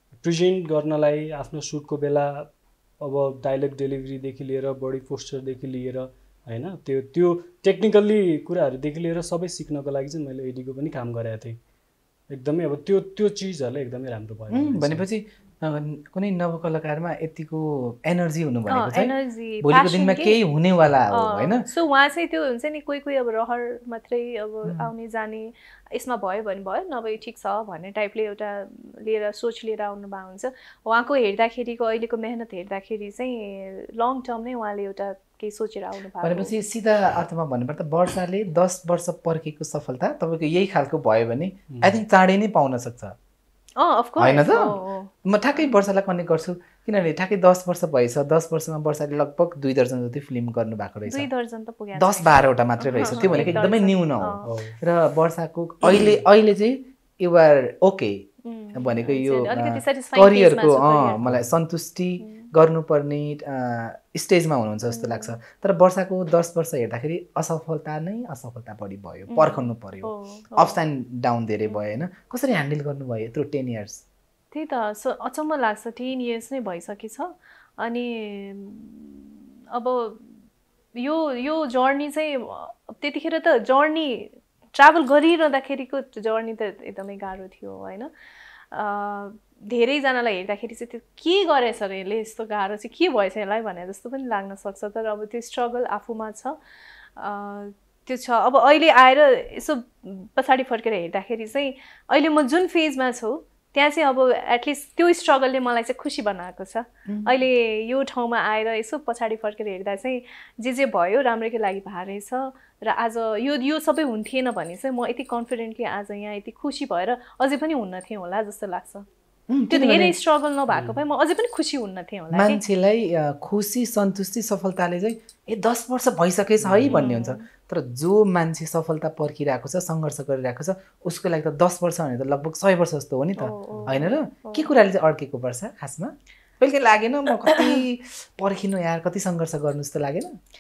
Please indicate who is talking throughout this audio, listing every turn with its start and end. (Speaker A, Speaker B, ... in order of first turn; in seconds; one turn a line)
Speaker A: 0.2-2.5
Speaker A: 3.0-11.6
Speaker A: 12.3-15.1
Speaker B: 14.5-21.7
Speaker C: 18.7-20.4
Speaker C: 21.1-36.5
Speaker B: 24.6-24.9
Speaker B: 36.2-43.1
Speaker A: 41.7-42.0
Speaker C: 43.8-45.1
Speaker B: 44.2-44.7
Speaker B: 45.2-51.3
Speaker C: 51.1-54.5
Speaker B: 52.0-58.2
Speaker A: 53.1-53.6
Speaker A: 54.4-54.8
Speaker A: 55.9-56.2
Speaker C: 58.5-61.2
Speaker B: 58.8-74.0
Speaker C: 62.2-62.5
Speaker C: 64.9-65.4
Speaker C: 69.3-70.8
Speaker C: 74.5-80.3
Speaker C: 81.0-88.1
Speaker C: 88.7-96.6
Speaker C: 97.2-119.1
Speaker B: 107.1-107.4
Speaker B: 119.5-120.2
Speaker C: 119.7-122.6
Speaker A: 120.7-121.0
Speaker B: 122.3-140.3
Speaker A: 126.6-127.0
Speaker C: 126.9-127.5
Speaker C: 133.4-134.7